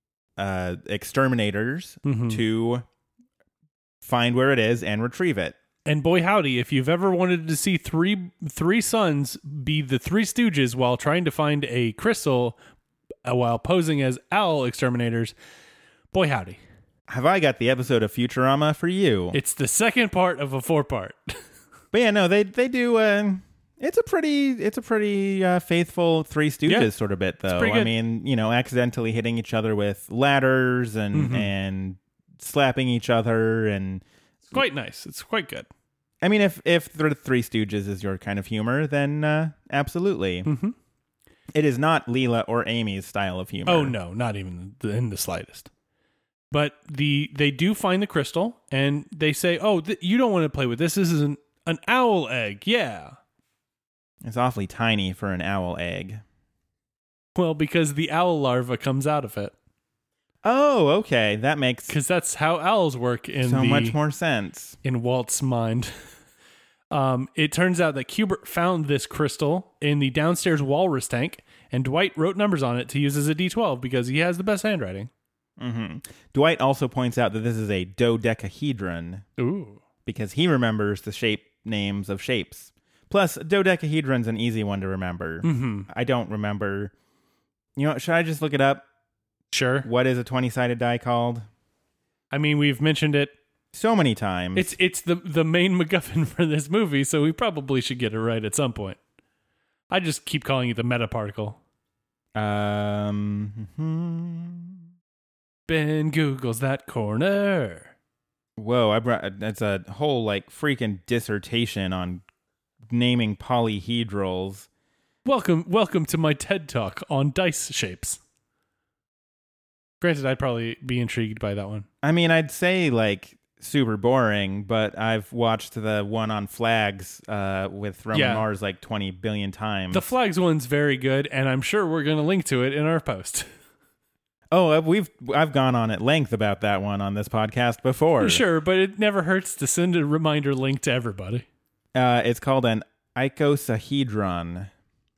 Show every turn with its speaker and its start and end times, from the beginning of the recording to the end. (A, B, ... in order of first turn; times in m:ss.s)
0:00.4-0:02.8 A
0:02.0-0:02.4 B
0:04.0-0:05.6 A
0:05.8-0:12.6 B
0:13.2-0:15.4 B
0:16.1-0:16.6 B
0:17.1-0:19.4 A
0:19.3-0:21.4 B
0:21.9-0:34.0 A
0:27.5-0:27.9 B
0:31.1-0:31.5 B
0:34.5-0:35.7 B
0:36.2-0:40.5 A
0:40.4-0:40.7 B
0:41.5-0:43.9 A
0:43.6-0:45.7 B
0:46.5-0:53.2 B
0:54.2-0:56.2 A
0:57.4-0:59.5 B
1:00.4-1:01.9 A
1:01.9-1:04.0 B
1:03.4-1:04.8 A
1:04.8-1:05.9 B
1:06.9-1:15.1 B
1:15.6-1:19.2 A
1:19.4-1:19.8 B
1:20.0-1:26.9 A
1:25.4-1:25.9 B
1:27.8-1:28.8 A
1:29.5-1:29.9 B
1:29.8-1:31.4 A
1:32.3-1:33.3 B
1:33.7-1:34.7 A
1:34.5-1:39.0 B
1:39.9-1:41.6 B
1:42.3-1:44.8 A
1:45.7-1:47.9 B
1:48.6-1:52.2 A
1:52.9-1:54.7 A
1:55.2-1:58.2 B
2:00.0-2:01.8 B
2:02.0-2:10.1 A
2:08.1-2:08.4 B
2:09.9-2:13.4 B
2:14.5-2:18.4 A
2:18.2-2:21.4 B
2:21.9-2:24.7 A